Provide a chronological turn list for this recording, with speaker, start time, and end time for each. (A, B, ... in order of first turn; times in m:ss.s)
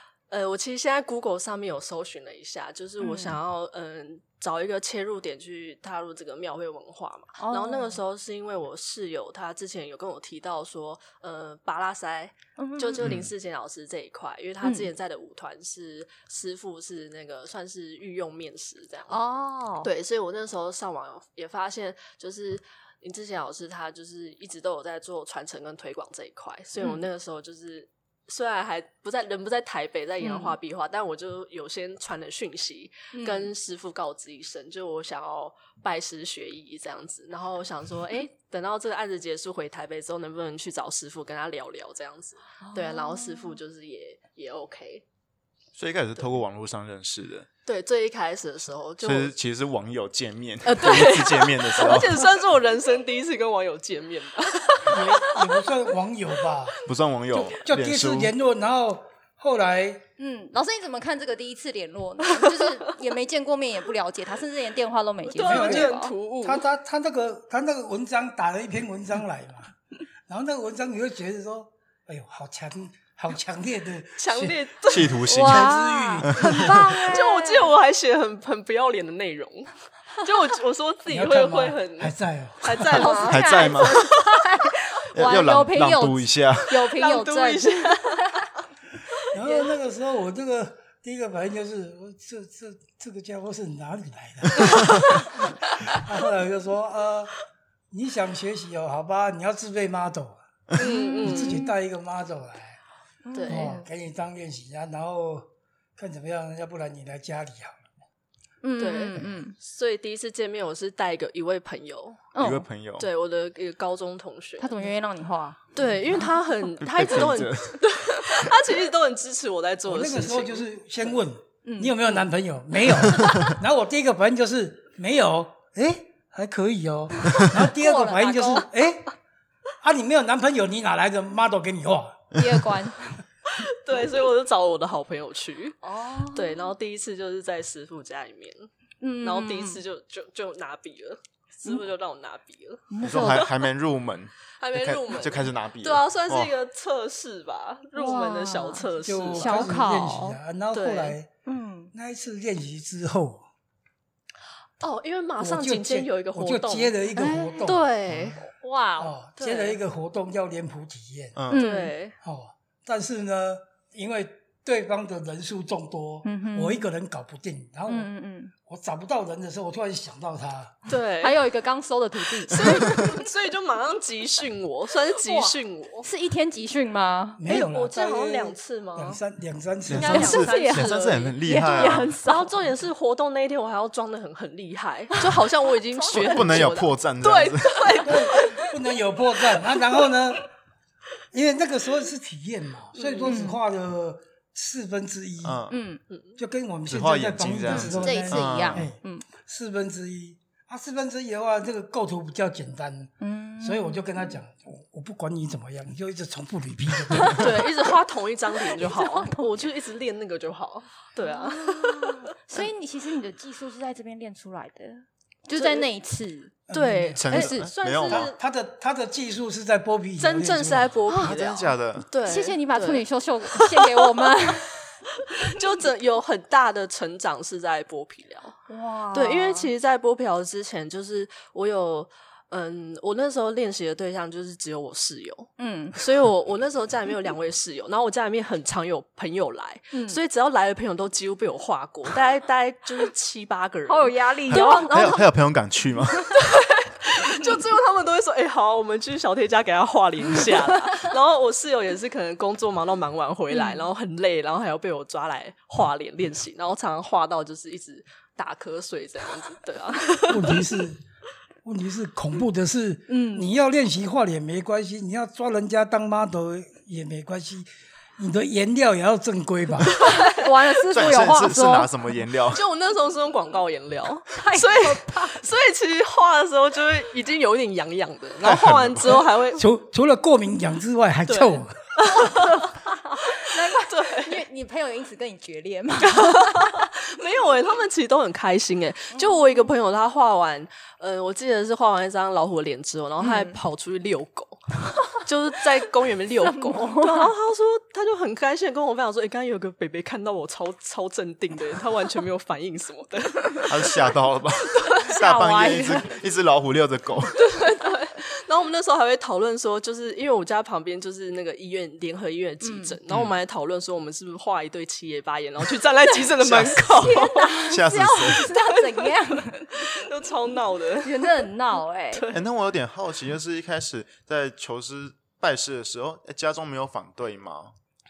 0:00.3-0:19.2 A
0:03.0-0:03.4 B
0:07.4-0:08.0 B
0:12.6-0:13.1 B
0:13.0-0:13.3 C
0:14.6-0:14.9 B
0:19.1-0:19.9 B
0:19.8-0:45.0 A
0:26.8-0:27.1 B
0:30.2-0:30.6 B
0:33.1-0:33.5 B
0:42.6-0:43.6 B
0:45.8-0:47.5 C
0:47.6-0:49.3 A
0:49.0-0:52.2 C
0:50.6-0:55.6 A
0:54.8-0:56.8 D
0:56.8-0:58.3 C
0:57.3-1:00.0 D
1:00.2-1:06.1 B
1:05.3-1:06.6 A
1:05.4-1:09.7 D
1:10.3-1:14.6 D
1:14.2-1:15.3 A
1:14.9-1:16.9 C
1:15.3-1:17.7 B
1:15.3-1:16.4 D
1:16.7-1:24.3 A
1:21.1-1:23.0 D
1:22.9-1:28.4 B
1:23.2-1:24.0 C
1:25.1-1:26.9 C
1:26.9-1:28.3 A
1:29.3-1:37.3 D
1:37.9-1:40.4 D
1:40.8-1:41.6 A
1:40.8-1:41.7 B
1:41.2-1:42.8 D
1:43.2-1:43.9 B
1:43.3-1:43.8 A
1:43.5-1:47.8 D
1:48.6-1:49.5 B
1:48.8-1:52.3 A
1:52.3-1:52.6 B
1:52.4-1:53.1 C
1:53.0-1:54.9 A
1:54.6-1:55.7 B
1:55.7-2:00.6 A
1:56.8-1:57.8 C
1:59.9-2:09.1 D
2:01.6-2:02.0 B
2:07.5-2:08.7 B
2:09.8-2:12.3 D
2:12.3-2:13.2 B
2:13.5-2:15.8 A
2:15.8-2:16.7 B
2:16.3-2:18.7 A
2:19.0-2:19.8 B
2:19.2-2:23.6 A
2:22.9-2:23.5 B
2:23.0-2:26.5 C
2:24.6-2:29.8 A
2:27.9-2:30.4 B
2:29.0-2:31.3 D
2:30.7-2:31.2 A
2:31.4-2:31.9 B
2:31.9-2:33.4 D
2:34.8-2:37.1 A
2:35.4-2:41.4 D
2:37.2-2:37.6 B
2:37.6-2:38.4 A
2:38.6-2:39.1 B
2:39.4-2:39.8 A
2:41.3-2:41.6 C
2:41.5-2:41.9 B
2:41.5-2:42.2 A
2:42.2-2:48.1 D
2:46.2-2:46.9 B
2:47.9-2:48.5 B
2:48.6-2:50.7 D
2:50.9-2:51.4 A
2:51.2-2:53.1 B
2:52.5-2:56.1 A
2:55.2-2:57.6 B
2:57.4-3:00.2 D
2:57.5-2:59.2 A
2:59.9-3:02.1 C
2:59.9-3:08.7 A
3:00.0-3:02.5 B
3:05.9-3:06.7 B
3:06.1-3:08.0 C
3:08.0-3:10.5 D
3:11.3-3:15.6 D
3:13.0-3:13.5 A
3:13.3-3:13.6 B
3:15.4-3:15.8 C
3:15.7-3:16.0 B
3:16.1-3:16.4 A
3:16.4-3:27.6 D
3:16.9-3:18.9 C
3:17.7-3:19.2 B
3:23.2-3:24.3 B
3:27.4-3:32.2 A
3:28.7-3:29.5 B
3:31.2-3:36.6 B
3:35.6-3:35.9 A
3:36.7-3:37.2 D
3:36.7-3:38.4 A
3:37.2-3:38.3 C
3:37.3-3:37.6 B
3:38.0-3:40.9 D
3:40.2-3:44.4 A
3:41.1-3:41.4 B
3:41.1-3:42.1 C
3:42.2-3:44.8 B
3:45.2-3:48.6 A
3:48.7-3:49.7 B
3:49.1-4:05.2 A
3:55.6-3:56.0 B
3:59.9-4:00.2 B
4:03.9-4:05.2 B
4:04.5-4:06.3 C
4:06.3-4:20.6 A
4:13.5-4:13.9 B
4:20.3-4:21.0 D
4:21.6-4:30.0 D
4:23.1-4:23.5 B
4:29.9-4:31.9 B
4:30.0-4:30.3 A
4:30.9-4:32.6 C
4:32.5-4:39.6 A
4:34.3-4:35.4 B
4:38.4-4:39.2 C
4:39.5-4:41.9 D
4:41.3-4:42.7 A
4:42.1-4:46.9 B
4:43.2-4:44.4 A
4:46.0-5:04.1 A
4:49.1-4:49.7 B
4:53.2-4:53.6 B
4:56.4-4:57.3 B
5:03.6-5:07.4 C
5:04.8-5:05.1 A
5:05.0-5:06.1 B
5:07.4-5:17.6 A
5:12.6-5:13.0 B
5:13.1-5:13.3 C
5:16.4-5:18.5 C
5:16.9-5:19.9 B
5:18.2-5:21.5 A
5:21.0-5:22.2 B
5:22.1-5:22.4 A
5:22.3-5:27.7 C